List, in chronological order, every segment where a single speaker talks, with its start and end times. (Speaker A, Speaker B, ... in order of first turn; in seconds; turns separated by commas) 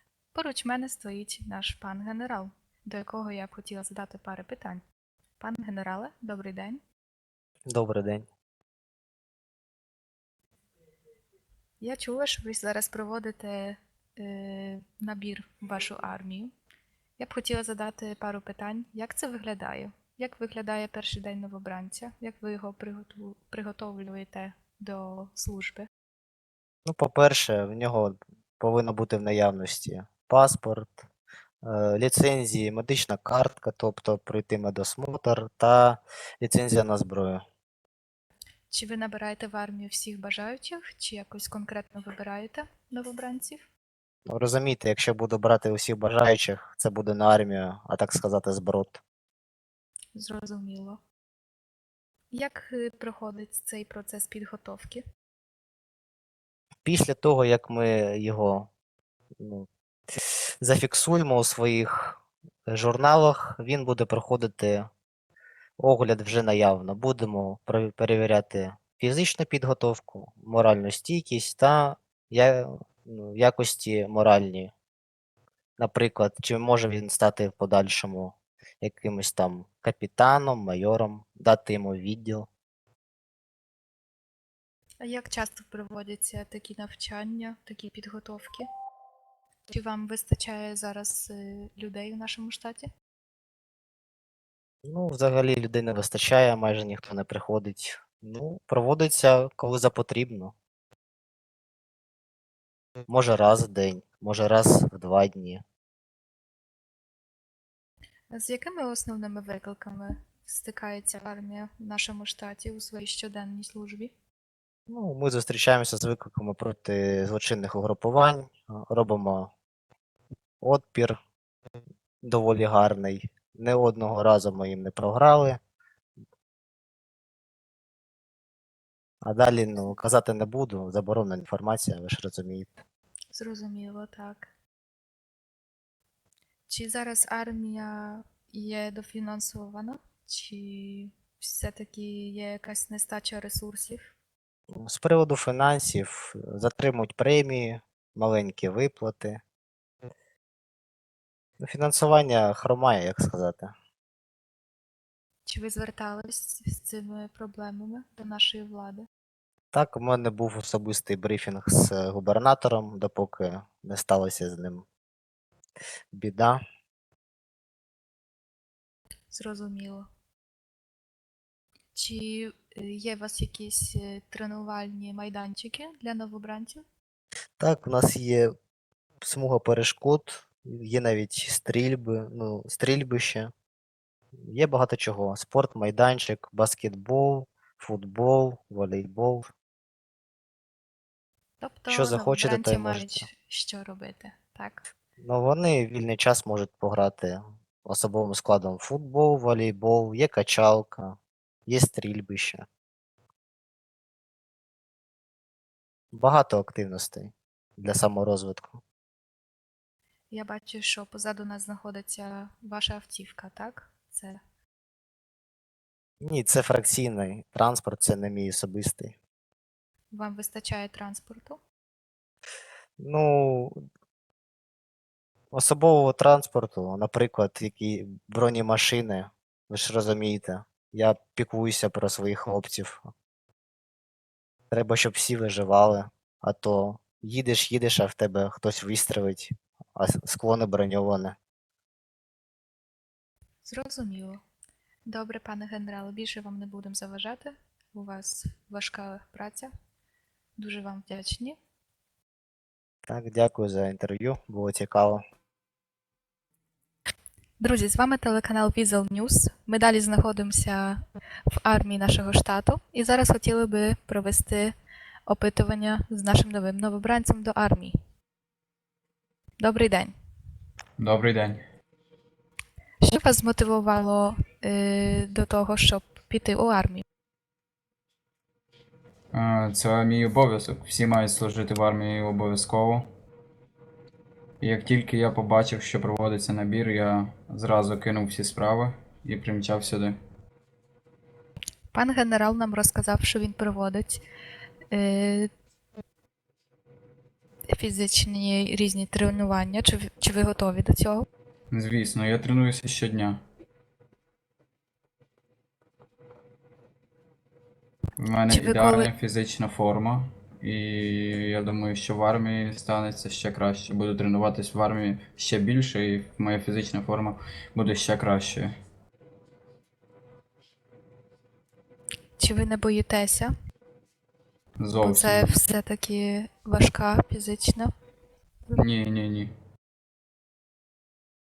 Speaker A: 0.3-4.8, Speaker A: 5.4-6.8, Speaker B: 7.7-8.3, Speaker A: 11.8-16.5, Speaker A: 17.2-25.9, Speaker B: 26.8-31.1, Speaker B: 31.6-37.4, Speaker A: 38.7-43.6, Speaker B: 44.2-49.0, Speaker A: 50.1-51.0, Speaker A: 52.3-55.0, Speaker B: 56.8-58.7, Speaker B: 59.4-64.9, Speaker B: 65.8-74.7, Speaker B: 75.8-82.5, Speaker A: 85.0-88.7, Speaker A: 89.7-92.9, Speaker B: 94.8-100.5, Speaker B: 103.1-105.6, Speaker A: 108.3-114.1, Speaker B: 114.9-119.5, Speaker B: 120.6-121.2, Speaker B: 122.2-125.6, Speaker B: 129.2-132.8, Speaker A: 133.3-134.5, Speaker A: 136.7-144.1, Speaker B: 144.7-149.4, Speaker B: 151.6-153.7, Speaker A: 155.4-159.1, Speaker B: 159.7-164.8, Speaker B: 166.1-166.6, Speaker A: 169.3-170.1, Speaker A: 171.9-176.8, Speaker B: 177.6-178.5, Speaker B: 179.2-183.5, Speaker B: 184.4-189.5, Speaker A: 191.6-194.8, Speaker B: 191.9-193.3, Speaker B: 195.2-202.7, Speaker B: 206.1-208.8, Speaker A: 210.3-214.4, Speaker B: 216.2-219.2, Speaker A: 220.1-221.6, Speaker B: 223.0-223.8, Speaker B: 225.5-233.1, Speaker B: 234.7-241.3, Speaker A: 243.6-244.4, Speaker A: 245.1-249.7, Speaker A: 250.6-251.6, Speaker B: 253.1-255.2, Speaker A: 257.6-261.0, Speaker A: 261.5-264.7, Speaker A: 265.3-267.9, Speaker A: 269.6-270.1, Speaker C: 271.0-271.6, Speaker A: 273.0-277.0, Speaker C: 279.3-283.1, Speaker C: 284.6-290.2, Speaker A: 291.9-294.2, Speaker A: 294.9-295.5, Speaker A: 297.7-301.2, Speaker C: 301.7-303.4, Speaker C: 308.2-318.7, Speaker A: 308.5-309.1, Speaker A: 322.4-323.5, Speaker C: 324.8-325.6, Speaker A: 325.0-327.9, Speaker C: 328.7-329.5